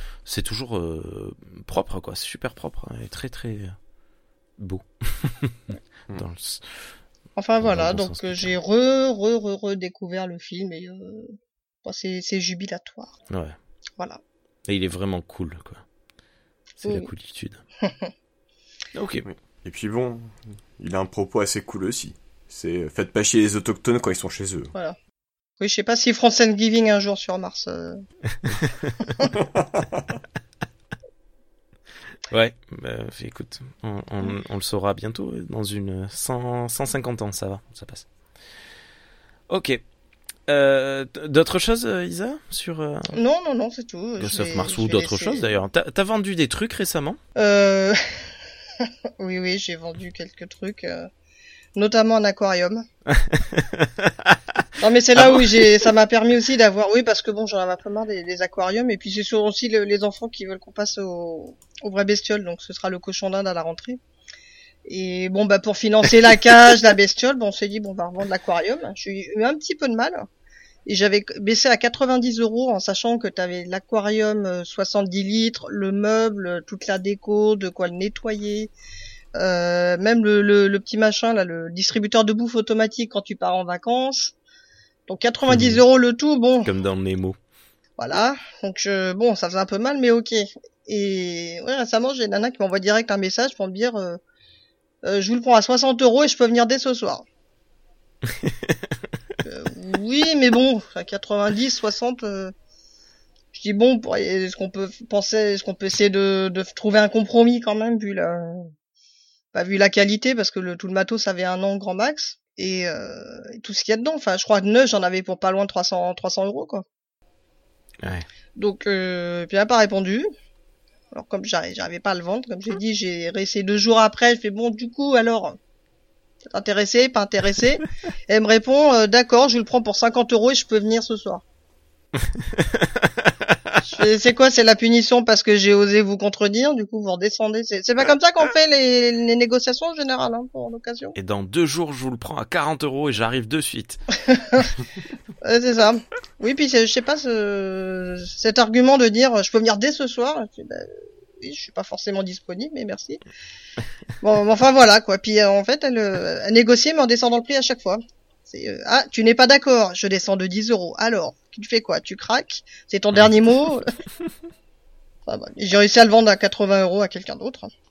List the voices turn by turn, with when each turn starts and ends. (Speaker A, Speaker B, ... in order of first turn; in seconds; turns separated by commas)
Speaker A: 0.2-3.8, Speaker A: 4.6-6.9, Speaker B: 7.4-13.1, Speaker A: 7.6-8.6, Speaker A: 13.3-13.6, Speaker A: 14.7-15.8, Speaker A: 16.8-17.6, Speaker A: 18.9-19.3, Speaker C: 19.3-24.7, Speaker B: 25.6-28.0, Speaker A: 28.5-29.1, Speaker C: 29.3-30.1, Speaker A: 32.3-38.1, Speaker A: 39.5-39.8, Speaker A: 40.5-43.2, Speaker B: 43.1-45.6, Speaker A: 44.2-47.2, Speaker B: 47.4-51.1, Speaker B: 51.8-52.9, Speaker A: 53.1-55.7, Speaker B: 54.8-64.0, Speaker B: 64.8-70.3, Speaker B: 70.9-78.7, Speaker B: 79.4-84.3, Speaker B: 85.1-86.7, Speaker A: 85.5-85.8, Speaker A: 86.7-87.4, Speaker B: 88.0-94.2, Speaker B: 95.0-97.2, Speaker A: 98.3-99.0, Speaker B: 99.4-102.5, Speaker B: 103.5-108.7, Speaker B: 109.5-116.8, Speaker A: 118.0-118.3, Speaker B: 118.6-120.3, Speaker B: 121.1-125.6, Speaker B: 126.5-131.4, Speaker A: 132.3-133.8, Speaker B: 133.8-141.2, Speaker A: 141.2-144.0, Speaker B: 144.3-144.7, Speaker B: 145.4-153.2, Speaker B: 154.2-163.9, Speaker B: 165.3-167.7